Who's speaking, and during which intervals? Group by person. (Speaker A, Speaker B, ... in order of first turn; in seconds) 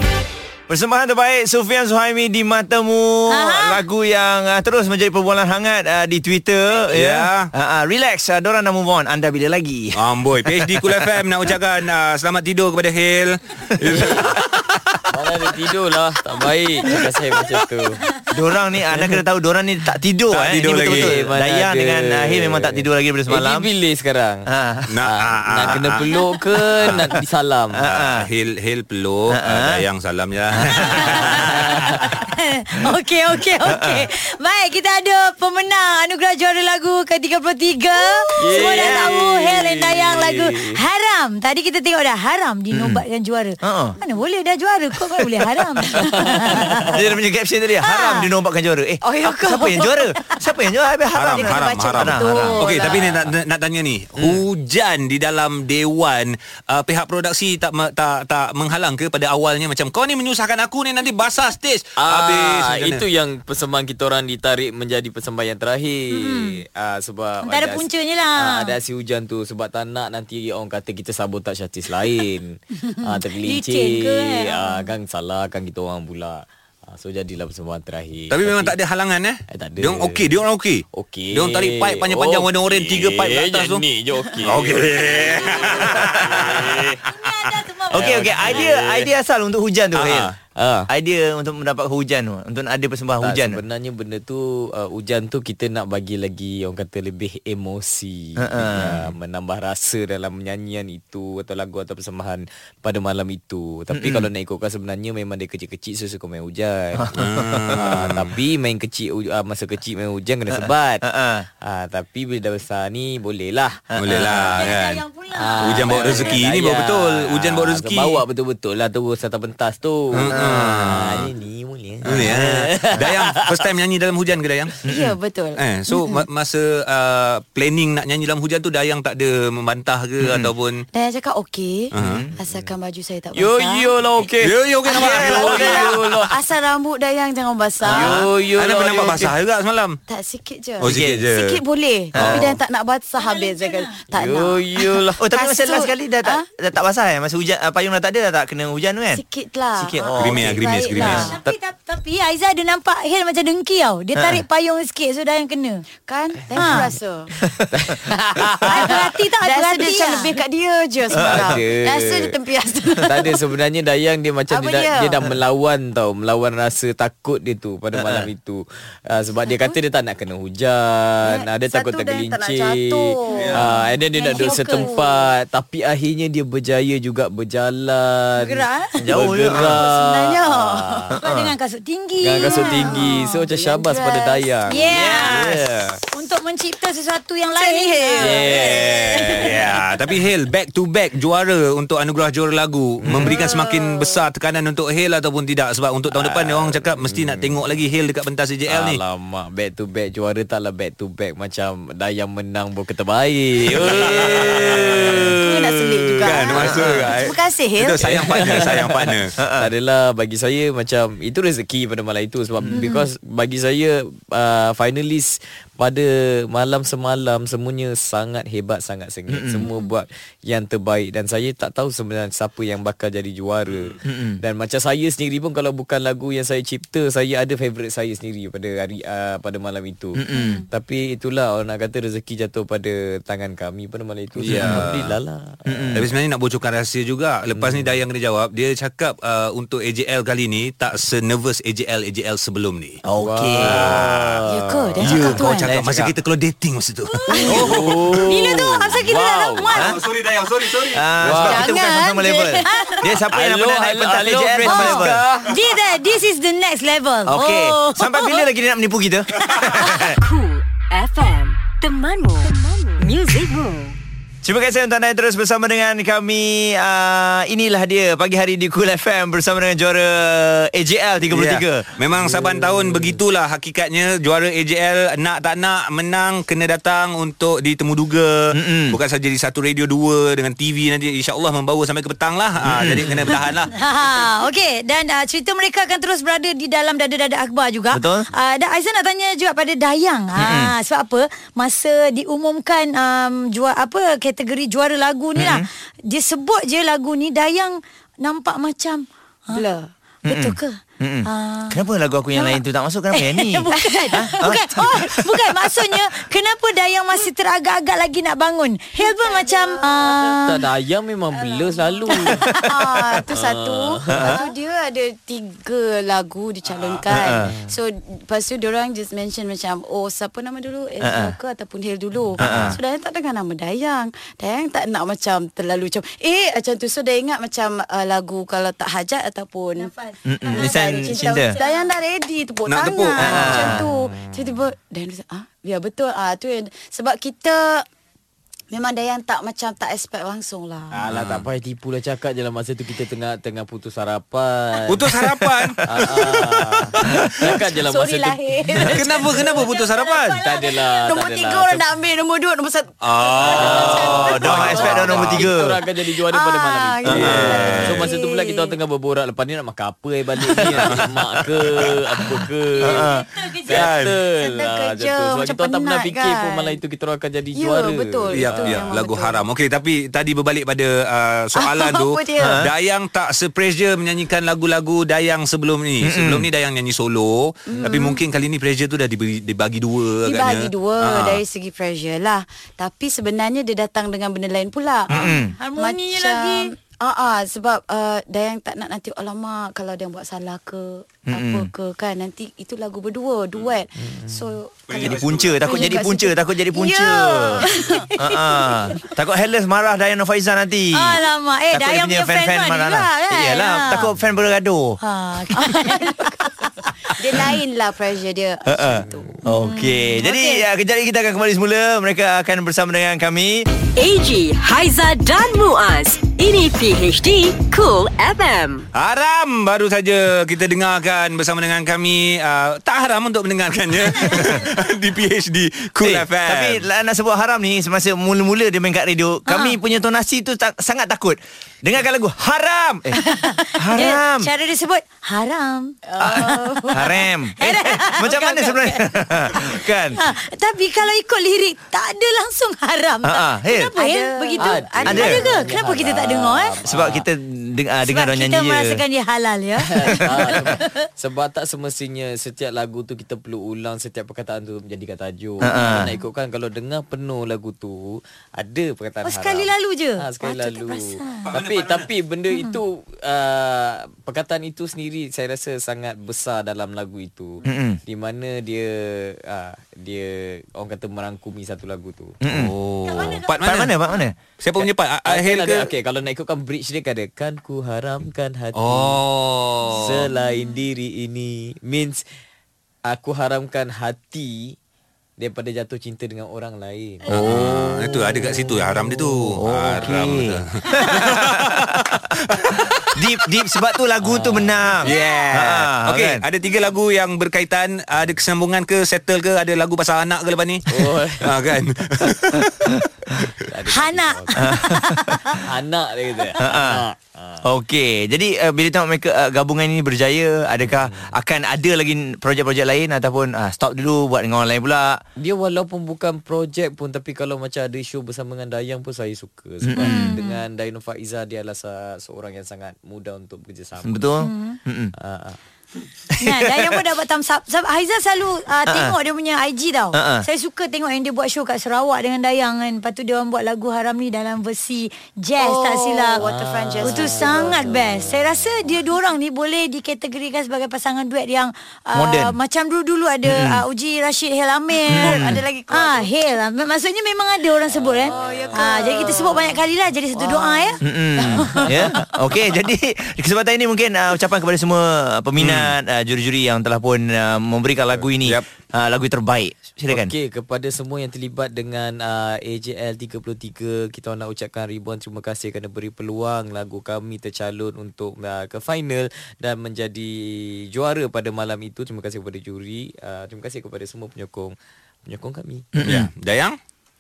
Speaker A: 0.7-11.1, 18.3-23.7, 24.5-24.9, 27.8-28.3, 29.3-29.8, 30.6-31.6, 33.7-34.1, 38.6-39.1, 42.7-43.0, 43.6-44.0, 46.9-52.9, 87.9-90.3, 90.9-93.6, 98.4-99.1, 103.9-104.3, 107.0-107.9, 110.6-111.5, 120.3-120.9, 124.9-125.1, 130.2-130.5, 132.0-132.3, 134.9-136.0, 140.8-141.3, 142.2-142.5, 145.2-149.2, 149.8-151.1, 161.2-161.6, 168.0-168.3, 179.0-179.8, 181.2-181.5, 184.8-185.9, 209.4-209.7, 219.3-219.7, 224.1-224.4, 230.2-230.6, 235.7-236.0, 243.1-244.1, 245.1-246.1, 249.7-250.0, 250.9-255.2, 257.3-260.2, 264.4-271.9, 278.5-279.0, 282.6-283.2, 287.9-288.3, 290.4-290.7, 295.4-295.7, 300.3-305.1, 314.1-314.4, 317.1-317.5, 321.0-321.3, 322.4-322.8, 330.3-331.5, 333.2-333.9, 345.4-346.2, 347.0-347.5, 353.8-355.8, 357.1-357.9, 362.9-363.2, 372.4-372.7, 376.0-376.5, 385.1-385.5, 391.3-391.7, 395.0-397.6, 398.2-401.2, 401.7-405.0, 408.7-413.7, 426.0-433.2, 433.8-434.5, 436.9-440.2, 443.2-443.9, 445.1-445.4, 446.9-449.0, 455.6-456.1, 467.6-468.0, 472.4-472.7, 473.6-474.4, 487.3-487.8, 489.6-492.2, 493.1-496.4, 504.6-505.4, 506.6-507.0, 507.6-515.2, 519.8-520.1, 524.0-525.1, 526.4-526.9, 528.9-529.1, 530.1-530.5, 542.1-542.5, 543.5-543.8, 545.1-545.6, 551.0-560.3, 576.0-576.3
Speaker B: 3.3-3.8, 30.8-31.4, 32.0-46.9, 47.8-48.3, 49.8-50.3, 66.1-66.6, 67.5-68.7, 72.8-74.9, 87.0-88.7, 114.5-116.4, 143.2-144.0, 151.0-155.8, 156.6-156.9, 158.7-160.3, 173.5-174.9, 178.4-179.1, 181.2-183.2, 184.7-185.4, 186.1-188.7, 212.7-213.1, 219.6-219.9, 247.1-247.7, 248.3-249.9, 252.6-253.1, 254.6-258.4, 259.5-260.0, 283.7-299.6, 300.3-301.8, 302.4-302.6, 303.1-310.6, 312.1-312.7, 329.8-331.9, 332.9-333.6, 348.8-351.0, 356.3-356.9, 362.8-363.9, 385.2-386.7, 397.6-397.9, 400.9-404.1, 405.0-406.7, 409.5-410.3, 429.5-429.8, 433.2-437.0, 437.6-446.8, 448.1-450.9, 459.2-461.5, 462.5-462.8, 473.1-474.2, 495.1-495.5, 503.9-505.6, 520.0-520.6, 524.4-524.8, 526.4-536.4, 537.0-551.0
Speaker C: 6.9-7.5, 10.0-15.0, 20.3-21.2, 24.9-26.1, 26.8-27.1, 27.8-31.6, 51.1-63.0, 78.3-83.8, 84.4-87.0, 107.1-108.3, 114.0-115.0, 115.6-118.2, 120.1-121.3, 122.1-124.8, 125.6-130.9, 131.9-132.2, 134.4-136.2, 137.9-140.0, 140.8-141.6, 142.2-142.5, 150.2-151.3, 173.3-173.7, 188.6-199.0, 203.7-205.4, 206.2-209.3, 223.7-224.0, 234.4-235.2, 235.9-243.0, 243.6-244.4, 245.0-248.2, 249.8-251.3, 271.3-283.7, 332.7-333.7, 341.1-341.5, 344.9-347.3, 348.8-350.4, 353.0-355.5, 357.1-358.1, 360.6-361.0, 363.7-364.2, 368.3-381.4, 394.9-395.6, 418.9-426.9, 461.5-462.1, 472.5-473.9, 474.6-475.9, 478.8-480.3, 487.3-493.2, 495.0-503.0, 555.6-555.9, 576.0-576.8
Speaker D: 13.8-14.4, 15.1-18.0, 18.9-19.2, 20.8-24.5, 25.1-27.9, 31.4-32.0, 38.4-40.8, 46.0-47.0, 62.0-78.8, 79.5-80.3, 80.9-87.0, 88.0-89.1, 90.0-90.9, 93.2-107.1, 107.7-111.0, 111.6-114.7, 115.3-123.6, 132.0-132.8, 133.3-136.4, 137.8-139.3, 142.2-142.5, 144.1-145.2, 156.4-156.8, 157.7-159.0, 161.1-162.4, 163.0-181.1, 182.2-186.0, 188.2-189.8, 193.0-193.4, 196.1-197.7, 198.7-207.2, 208.0-236.1, 237.6-238.0, 243.2-245.4, 247.5-249.8, 251.2-251.8, 253.3-255.6, 272.1-273.2, 310.4-312.6, 313.3-314.4, 317.2-317.8, 333.6-334.5, 340.9-345.1, 345.9-348.9, 350.4-351.9, 353.4-368.9, 394.0-394.6, 444.6-447.3, 449.9-472.4, 474.8-479.2, 479.9-482.2, 483.1-484.8, 485.4-489.1, 494.2-495.1, 500.9-501.5, 503.6-504.8, 505.6-507.6, 510.9-511.3, 515.4-524.3, 525.2-525.6, 536.4-539.0, 547.9-549.4, 550.4-552.1, 560.1-575.9
Speaker E: 49.0-49.9, 51.3-53.2, 124.8-126.2, 130.9-134.0, 134.9-138.2, 140.1-146.5, 149.1-151.4, 156.1-157.3, 158.7-163.4, 164.5-165.3, 169.5-169.7, 171.3-175.2, 179.5-181.1, 182.4-184.8, 187.5-189.5, 193.1-194.2, 204.0-208.2, 230.3-230.6, 244.5-245.7, 247.3-247.7, 251.4-253.2, 299.5-299.9, 303.7-304.3, 309.0-310.1, 311.4-329.9, 330.5-337.8, 338.7-341.0, 347.7-349.6, 350.7-354.4, 356.4-358.7, 364.4-366.8, 367.5-369.4, 371.6-372.6, 377.7-378.2, 380.2-398.1, 407.2-409.3, 410.2-410.6, 436.1-437.2, 443.9-445.7, 535.6-538.0, 545.1-546.3, 548.3-549.7, 551.4-552.1
Speaker F: 260.2-264.0, 414.0-418.9